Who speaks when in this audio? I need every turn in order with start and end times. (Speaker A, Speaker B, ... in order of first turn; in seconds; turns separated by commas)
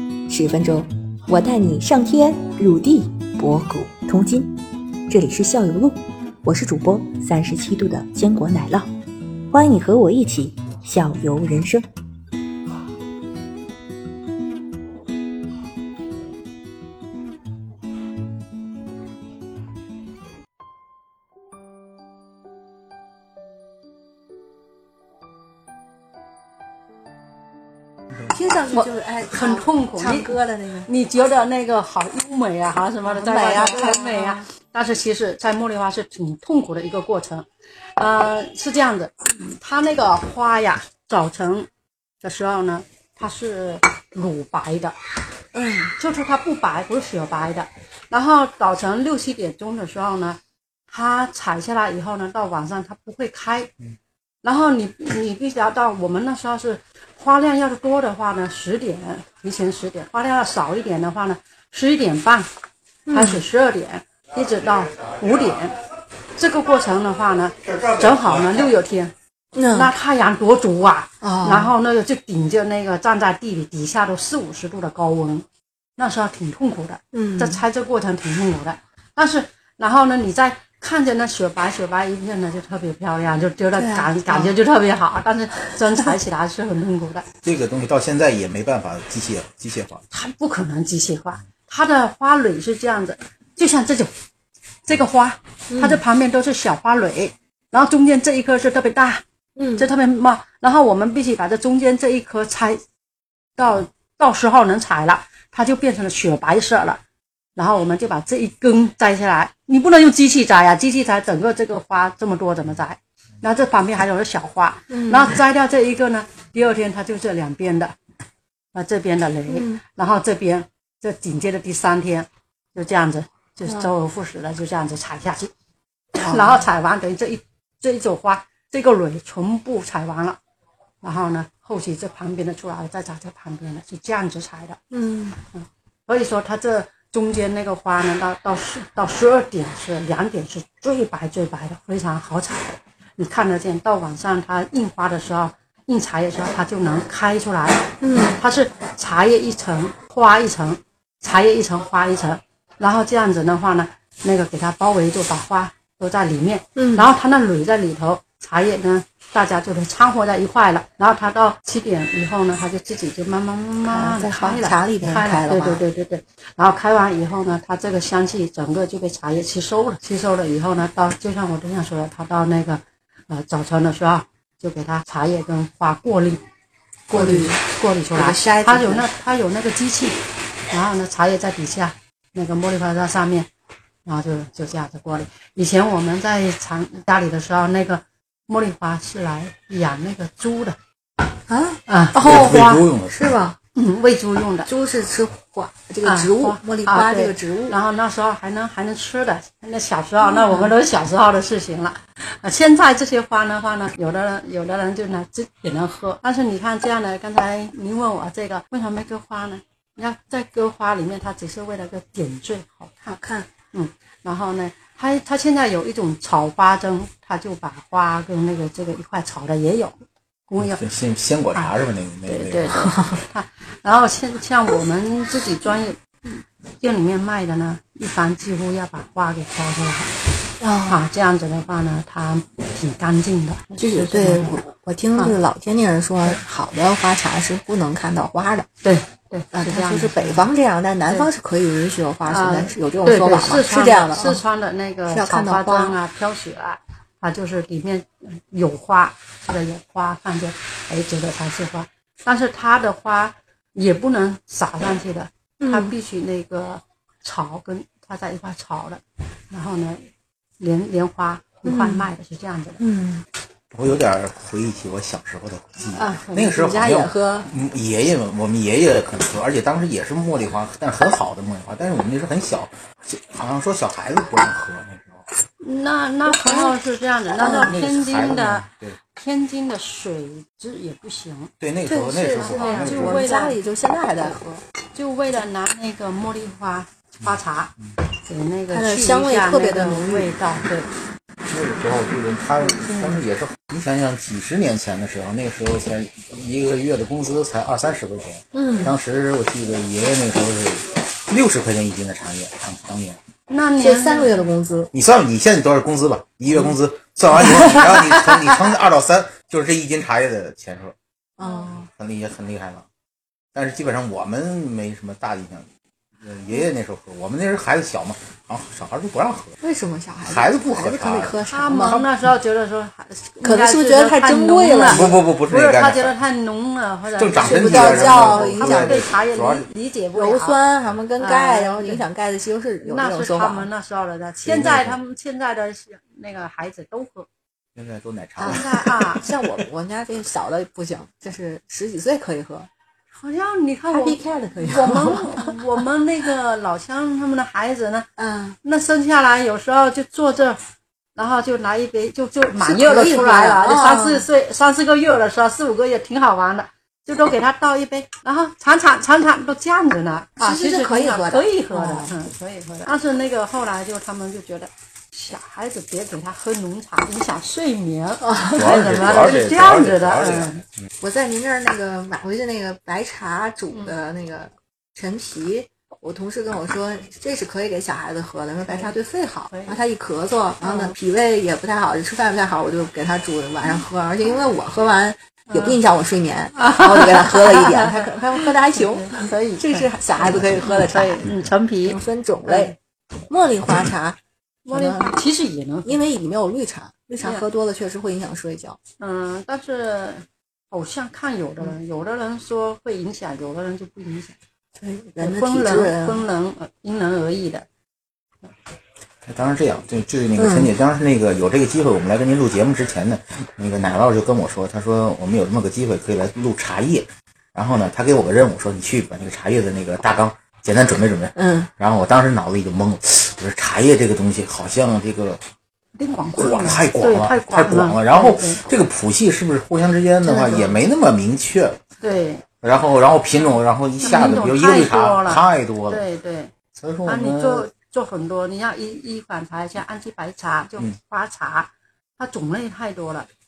Speaker A: 0.3-2.0, Speaker B: 1.8-4.5, Speaker B: 5.1-8.9, Speaker B: 9.5-11.9, Speaker A: 28.3-30.9, Speaker C: 28.7-37.5, Speaker A: 33.0-34.5, Speaker C: 38.0-41.7, Speaker C: 42.2-45.0, Speaker A: 45.5-46.0, Speaker C: 46.0-53.7, Speaker C: 54.4-62.5, Speaker A: 63.1-63.5, Speaker C: 63.1-65.8, Speaker C: 66.4-69.1, Speaker A: 69.6-69.9, Speaker C: 69.7-75.5, Speaker A: 71.2-71.8, Speaker C: 76.0-87.3, Speaker A: 77.1-77.6, Speaker A: 83.8-84.6, Speaker D: 87.4-90.0, Speaker C: 90.1-94.1, Speaker C: 94.9-99.2, Speaker A: 95.7-96.0, Speaker A: 99.6-99.9, Speaker C: 99.8-102.8, Speaker C: 103.6-107.0, Speaker C: 107.6-118.0, Speaker A: 114.9-115.4, Speaker C: 118.7-125.5, Speaker A: 119.5-119.8, Speaker C: 126.2-130.4, Speaker A: 126.2-126.7, Speaker C: 131.0-134.8, Speaker A: 134.9-135.4, Speaker C: 135.5-176.4, Speaker A: 148.0-148.4, Speaker A: 156.8-157.1, Speaker A: 163.9-165.8, Speaker A: 177.1-177.6, Speaker C: 177.1-180.2, Speaker A: 178.1-179.1, Speaker C: 180.7-183.5, Speaker C: 184.1-190.8, Speaker A: 191.5-193.6, Speaker C: 191.9-192.8, Speaker D: 192.2-193.3, Speaker C: 193.8-194.7, Speaker A: 194.7-197.8, Speaker C: 196.0-213.0, Speaker A: 200.3-200.7, Speaker A: 213.0-213.5, Speaker C: 213.7-219.9, Speaker C: 220.5-220.9, Speaker D: 220.6-222.8, Speaker C: 222.3-230.1, Speaker A: 222.7-223.2, Speaker A: 230.6-231.0, Speaker C: 230.9-234.6, Speaker A: 233.8-238.7, Speaker C: 238.8-240.5, Speaker A: 239.5-244.4, Speaker C: 242.3-262.8, Speaker A: 245.1-246.0, Speaker A: 255.6-255.9, Speaker A: 261.6-262.1, Speaker A: 262.8-263.2, Speaker D: 263.7-275.3, Speaker A: 265.9-267.5, Speaker C: 275.6-281.5, Speaker A: 276.3-276.7, Speaker A: 277.4-277.8, Speaker D: 277.5-279.0, Speaker D: 281.6-283.4, Speaker A: 281.9-284.6, Speaker C: 282.4-283.6, Speaker C: 284.9-287.7, Speaker D: 287.2-287.9, Speaker C: 288.2-290.9, Speaker A: 288.7-290.3, Speaker D: 291.5-303.2, Speaker C: 292.6-293.2, Speaker A: 298.5-298.9, Speaker C: 303.5-304.4, Speaker A: 303.8-304.9, Speaker D: 304.9-310.9, Speaker A: 311.4-311.9, Speaker D: 311.8-312.9, Speaker D: 313.5-315.7, Speaker D: 316.2-319.5, Speaker A: 319.6-322.0, Speaker D: 320.2-322.1, Speaker C: 321.5-330.6, Speaker A: 323.4-325.1, Speaker D: 324.9-326.2, Speaker D: 327.1-329.7, Speaker A: 327.4-329.0, Speaker A: 330.1-333.7, Speaker C: 331.2-332.1, Speaker C: 332.8-337.3, Speaker D: 334.4-335.0, Speaker D: 337.8-339.3, Speaker A: 338.4-342.7, Speaker C: 338.4-339.3, Speaker C: 343.1-348.1, Speaker A: 343.9-345.6, Speaker A: 348.2-348.6, Speaker C: 348.6-350.6, Speaker C: 351.2-370.6, Speaker A: 352.6-354.3, Speaker A: 360.4-362.2, Speaker A: 368.2-368.7, Speaker D: 368.6-370.6, Speaker A: 371.0-391.3, Speaker C: 373.7-374.0, Speaker C: 379.5-379.8, Speaker C: 380.6-380.9, Speaker C: 385.5-385.8, Speaker C: 386.6-392.8, Speaker A: 391.9-392.8, Speaker A: 393.3-395.2, Speaker C: 394.7-396.0, Speaker A: 395.9-398.8, Speaker C: 397.2-397.5, Speaker C: 399.0-404.4, Speaker A: 404.8-406.2, Speaker C: 405.2-407.7, Speaker D: 409.2-425.4, Speaker A: 410.4-410.7, Speaker A: 421.4-421.7, Speaker C: 426.0-428.6, Speaker D: 426.4-431.8, Speaker A: 430.2-430.8, Speaker C: 432.0-432.5, Speaker D: 432.6-436.0, Speaker C: 434.0-436.5, Speaker D: 436.7-437.7, Speaker C: 437.1-443.3